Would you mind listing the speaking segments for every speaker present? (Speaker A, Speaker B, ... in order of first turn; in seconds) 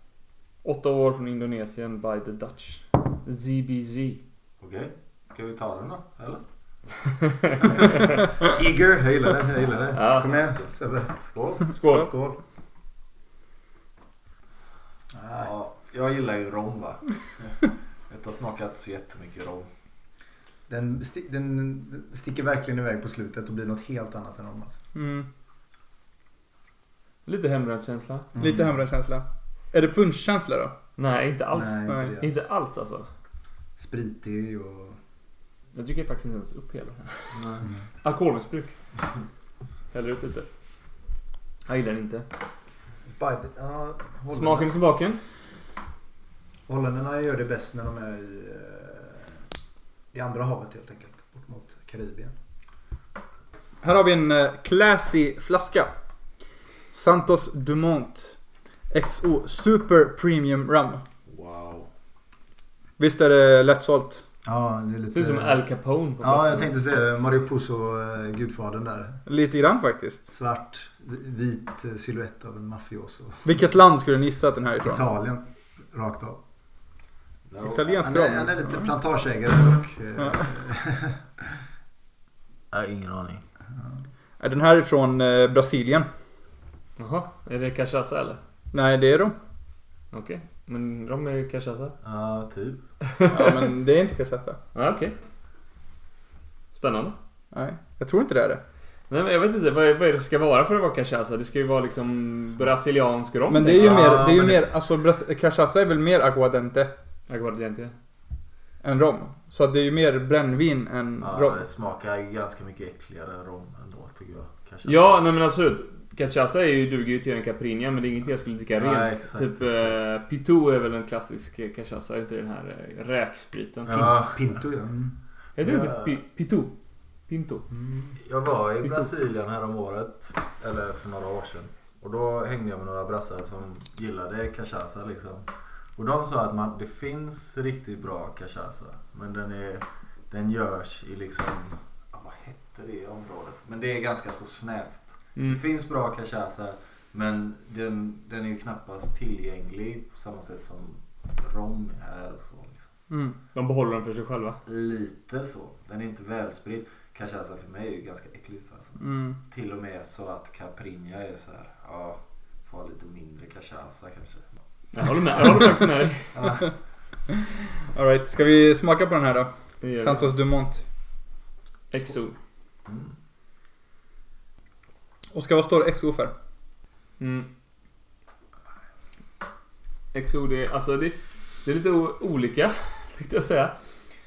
Speaker A: 0.6-4.2, 9.9-10.3, 11.8-12.1, 27.2-28.3, 31.0-33.1, 35.7-38.7, 39.9-40.5, 41.7-42.2, 44.3-45.2, 65.1-66.7, 87.0-88.4, 90.1-91.9, 93.1-93.5, 94.7-95.2, 96.7-97.2, 99.1-104.3, 107.3-107.9, 114.8-123.9, 125.5-126.7, 127.3-127.7, 128.8-129.1, 153.5-154.6, 164.9-166.3, 169.8-170.3, 171.9-172.3, 177.2-177.5, 180.1-183.7
Speaker B: 4.6-6.4, 7.7-8.0, 9.9-11.6, 15.4-17.5, 18.1-19.7, 37.3-37.6, 61.3-61.9, 77.5-78.0, 82.7-83.4, 92.0-92.8, 103.8-104.8, 111.2-115.3, 118.8-120.0, 123.8-124.5, 125.6-126.1, 128.2-152.8, 154.7-164.4, 166.3-166.7, 172.8-173.1
Speaker C: 8.4-12.4, 15.1-15.5, 20.7-24.8, 28.3-28.7, 31.5-32.4, 33.8-35.0, 43.1-44.8, 46.7-49.3, 50.1-52.3, 64.4-65.6, 66.2-69.2, 70.3-73.5, 74.8-76.4, 78.0-81.5, 123.9-125.1, 127.7-128.2
Speaker D: 24.9-25.3, 28.4-30.7, 53.8-55.9, 56.9-58.4, 58.9-61.0, 63.0-64.2, 69.2-70.3, 73.4-75.1, 77.6-78.9, 80.2-80.5, 84.4-86.1, 88.7-89.3, 93.3-94.6, 97.5-98.6, 103.5-106.9, 108.8-111.6, 153.1-153.4, 159.0-159.4, 167.3-170.8, 175.3-176.3